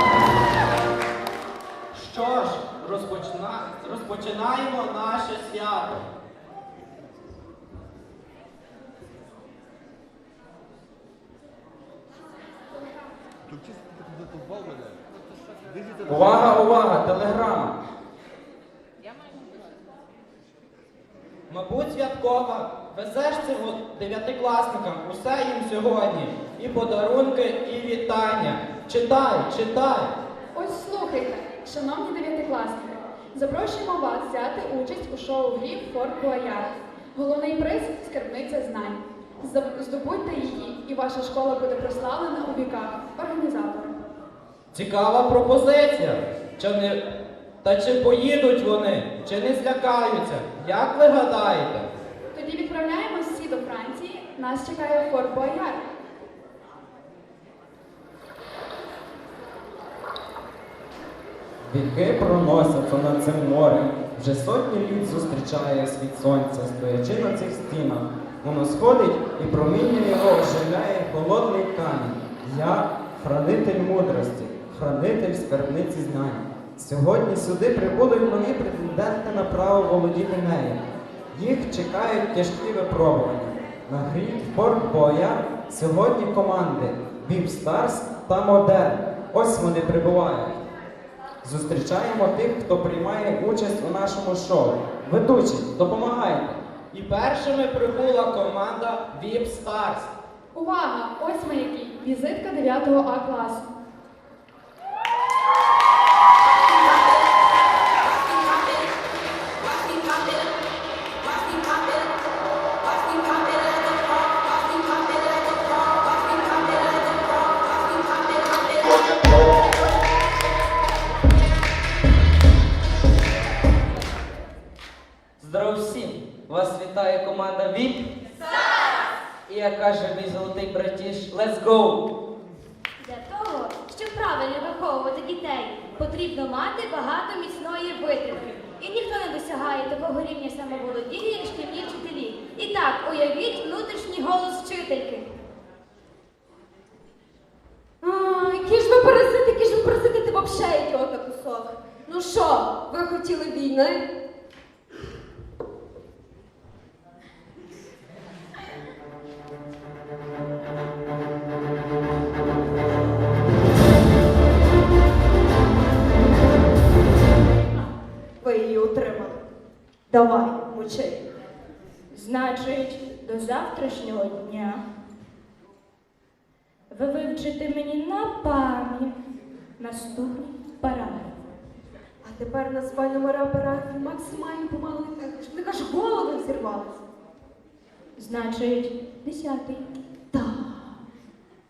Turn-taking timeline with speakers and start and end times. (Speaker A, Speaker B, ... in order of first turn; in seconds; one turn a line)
Speaker A: 1.9-6.0
Speaker B: 16.1-17.8
Speaker A: 21.5-30.1
Speaker C: 30.5-43.9
Speaker A: 44.7-47.0
Speaker A: 47.6-51.9
Speaker C: 52.3-55.8
Speaker B: 61.7-80.8
Speaker B: 81.3-90.6
Speaker B: 91.4-96.6
Speaker A: 96.9-100.1
Speaker C: 100.5-103.7
Speaker D: 125.4-128.1
Speaker D: 129.5-132.0
Speaker E: 133.0-145.3
Speaker F: 148.0-154.1
Speaker F: 168.4-169.4
Speaker F: 170.1-171.2
Speaker G: 172.1-174.8
Speaker G: 176.9-179.2
Speaker G: 179.8-181.4
Speaker F: 182.2-187.0
Speaker G: 188.2-189.9
Speaker F: 190.3-190.9